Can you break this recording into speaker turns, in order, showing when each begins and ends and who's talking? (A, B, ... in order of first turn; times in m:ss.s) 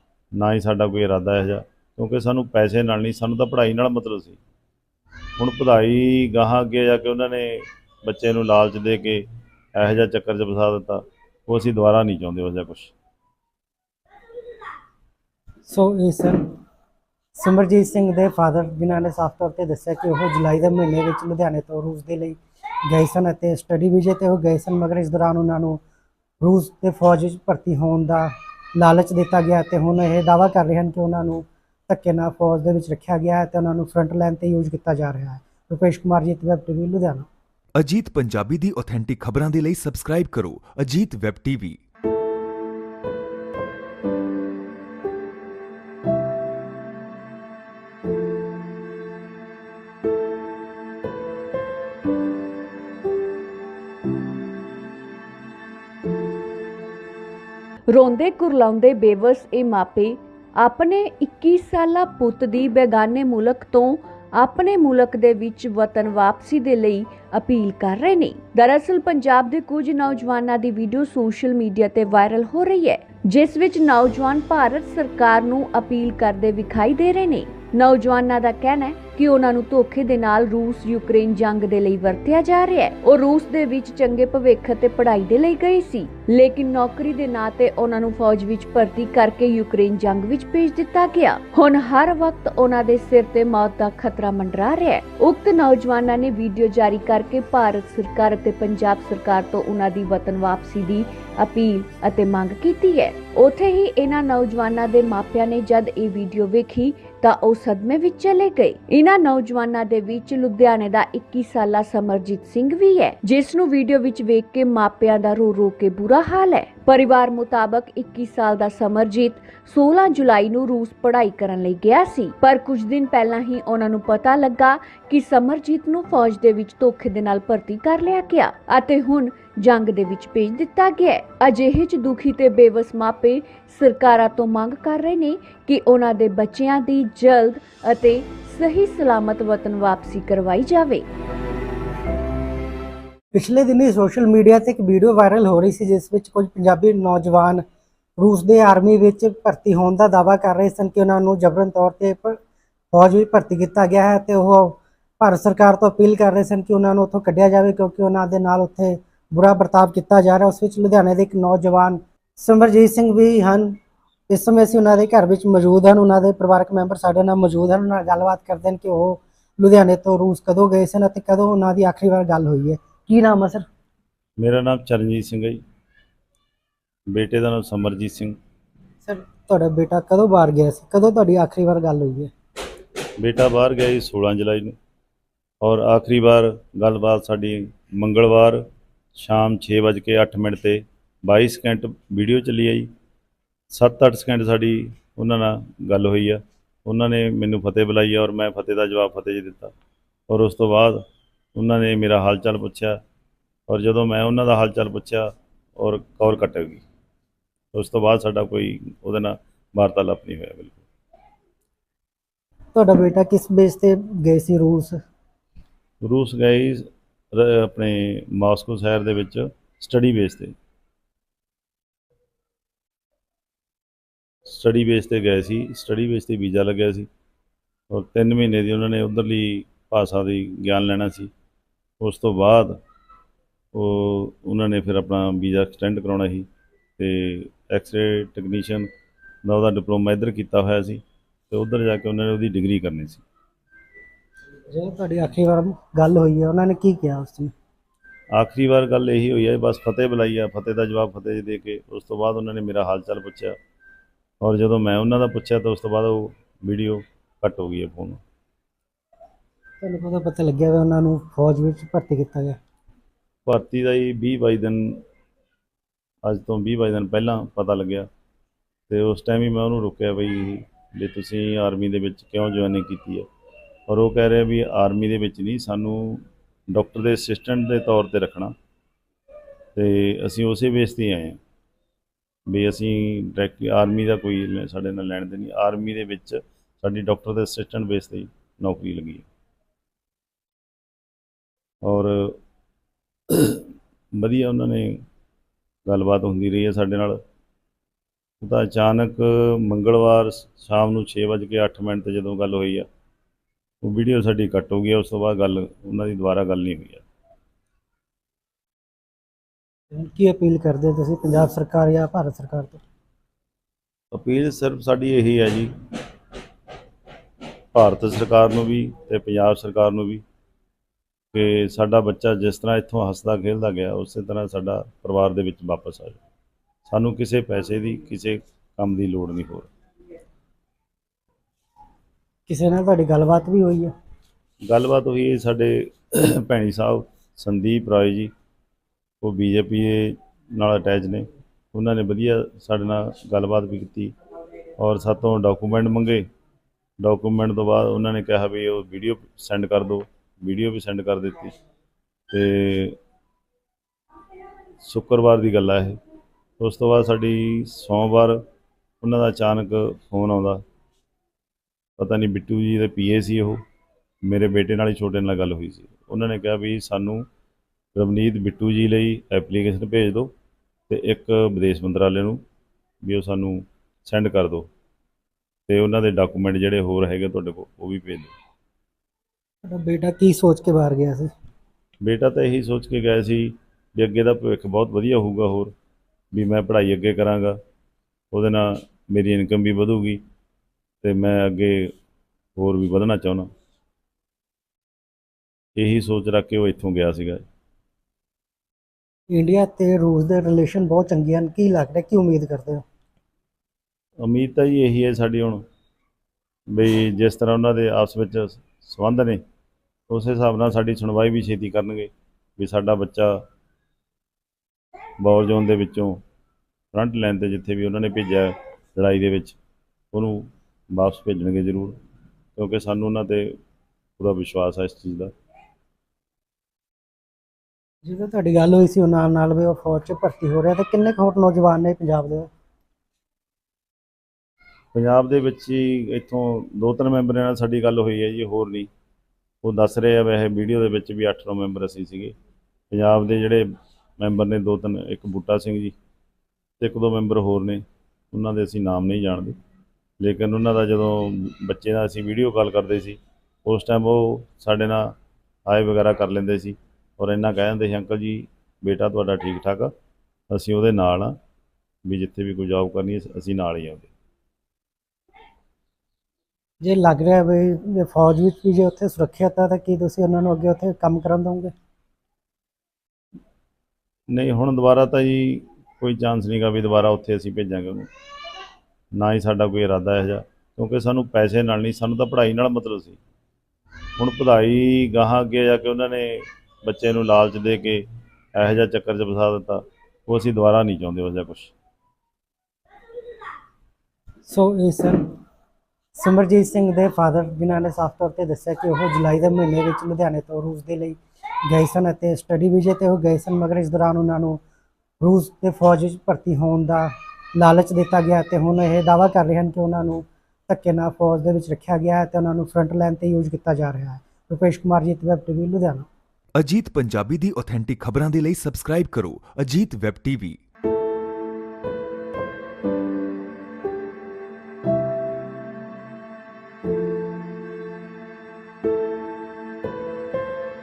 0:00.4-0:04.4 A
0:05.4-0:12.9 A
0:15.6-0:16.4 B
0:17.3-0:25.8 B
0:26.4-0:37.3 B
0:37.8-0:41.8 C
0:57.9-2:21.0 D
2:23.3-2:27.6 B
2:28.2-2:32.4 B
2:32.9-2:43.8 B
2:44.3-2:53.6 B
2:54.4-2:55.6 A
2:57.1-2:58.4 A
2:59.0-3:02.3 B
3:03.2-3:04.7 A
3:05.6-3:08.6 A
3:09.2-3:12.9 A
3:13.7-3:19.7 A
3:20.3-3:21.0 A
3:21.6-3:23.0 A
3:23.7-3:26.8 A
3:27.7-3:30.8 A
3:32.7-3:35.0 B
3:36.0-3:40.5 A
3:44.4-3:47.1 A
3:47.9-3:51.3 A
3:52.0-3:52.8 A
3:53.7-3:56.5 A
3:57.0-3:58.9 A
3:59.4-4:03.2 A
4:04.7-4:07.5 B
4:08.3-4:13.6 A
4:14.4-4:18.2 A
4:19.8-4:22.6 B
4:23.4-4:25.0 A
4:26.3-4:28.1 A
4:28.9-4:33.2 A
4:33.9-4:38.5 A
4:39.8-4:41.4 A
4:42.5-4:49.3 A
4:51.8-4:52.4 A
4:53.3-4:55.0 A
4:55.9-4:57.2 A
4:58.4-5:02.9 A
5:03.8-5:07.0 A
5:09.9-5:12.8 B
5:14.1-5:15.7 A
5:17.7-5:20.2 A
5:21.3-5:26.2 A
5:26.9-5:29.7 A
5:32.5-5:33.9 B
5:34.7-5:38.3 A
5:39.2-5:44.1 A
5:44.8-5:46.2 A
5:47.0-5:51.5 A
5:52.3-5:53.0 A
5:54.8-5:56.0 A
5:56.6-5:58.4 A
5:59.0-6:00.6 A
6:02.0-6:03.6 A
6:04.3-6:07.2 A
6:07.9-6:10.3 A
6:10.9-6:12.4 A
6:13.0-6:14.7 A
6:15.7-6:18.3 A
6:19.6-6:21.3 B
6:22.0-6:25.7 A
6:26.3-6:27.6 A
6:28.3-6:30.2 A
6:31.0-6:31.9 A
6:32.6-6:33.5 A
6:35.8-6:37.4 A
6:39.3-6:42.8 B
6:44.2-6:45.6 A
6:46.7-6:49.4 A
6:50.1-6:53.4 A
6:55.2-6:56.2 A
6:56.9-6:59.6 A
7:00.1-7:02.0 A
7:02.6-7:03.6 A
7:04.2-7:05.3 A
7:08.0-7:12.5 B
7:14.9-7:18.9 A
7:19.6-7:22.3 A
7:22.9-7:23.6 A
7:24.2-7:25.9 A
7:26.8-7:29.6 A
7:30.2-7:35.1 A
7:35.6-7:39.9 A
7:40.5-7:41.3 A
7:42.0-7:44.1 A
7:46.8-7:51.7 B
7:54.3-7:58.1 A
7:59.2-8:03.2 A
8:04.2-8:11.7 A
8:14.4-8:15.2 B
8:16.1-8:24.6 B
8:25.2-8:36.1 B
8:36.6-8:40.6 C